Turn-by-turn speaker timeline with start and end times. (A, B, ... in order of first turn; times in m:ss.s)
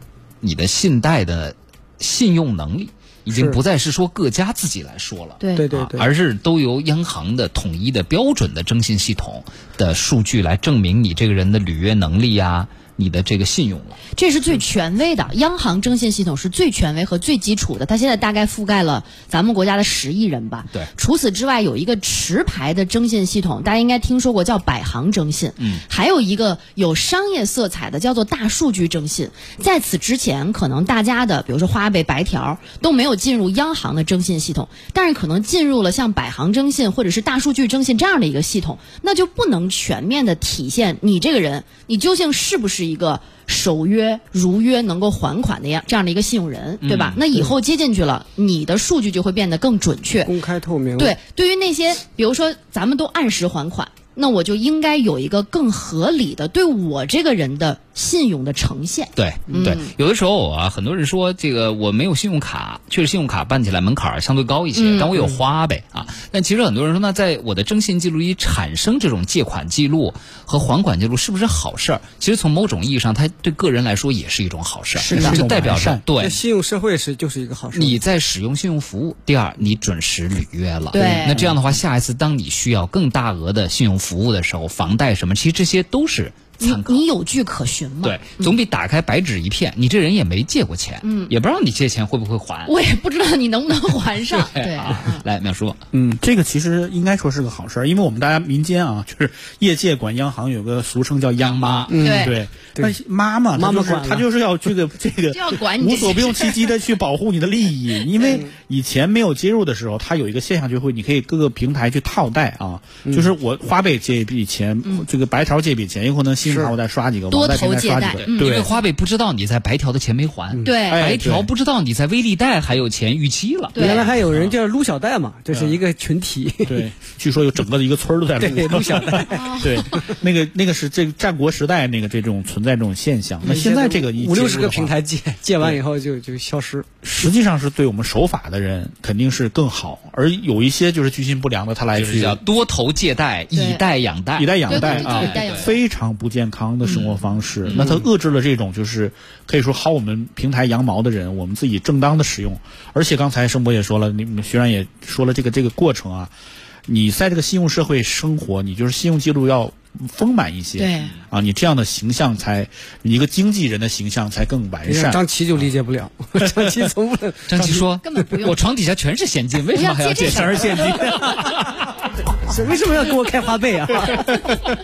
0:00.4-0:14.0 A
0:03.3-0:03.6 B
0:05.4-0:05.7 C
0:05.6-0:06.1 B
0:14.2-0:50.3 C
0:46.8-0:47.2 A
0:50.2-0:51.2 B
0:51.0-0:59.9 C
0:59.2-1:16.4 A
0:59.5-0:59.8 B
1:04.8-1:05.3 C
1:15.0-1:16.0 D
1:15.1-1:15.4 C
1:16.2-1:18.0 B
1:17.7-1:27.0 A
1:20.9-1:21.6 C
1:21.0-1:21.5 B
1:26.6-1:28.5 C
1:28.0-1:32.7 A
1:31.0-1:31.3 C
1:32.7-1:35.2 C
1:34.3-1:35.8 A
1:35.9-1:58.7 D
1:41.4-1:41.9 A
1:41.9-1:43.0 B
1:42.0-1:42.4 C
1:43.6-1:44.3 B
1:45.3-1:46.6 C
1:48.2-1:48.5 B
1:53.0-1:53.3 B
1:56.5-1:56.8 B
1:57.3-1:58.7 C
1:58.2-2:03.8 A
2:00.5-2:00.8 B
2:00.6-2:01.2 C
2:00.9-2:01.5 D
2:03.7-2:04.1 C
2:03.8-2:06.8 B
2:03.8-2:04.6 D
2:05.5-2:05.8 D
2:06.6-2:15.0 D
2:08.4-2:10.1 B
2:09.3-2:10.0 C
2:13.4-2:17.3 B
2:17.0-2:22.4 D
2:22.0-2:25.7 A
2:23.5-2:23.8 C
2:24.4-2:36.3 D
2:24.7-2:25.8 C
2:26.8-2:27.2 C
2:27.7-2:28.0 C
2:36.9-2:45.2 D
2:40.8-2:41.1 C
2:44.8-2:47.8 B
2:47.5-2:51.5 A
2:48.0-2:48.6 C
2:49.7-2:50.9 C
2:50.3-2:51.5 D
2:50.5-2:51.7 B
2:52.4-2:54.6 B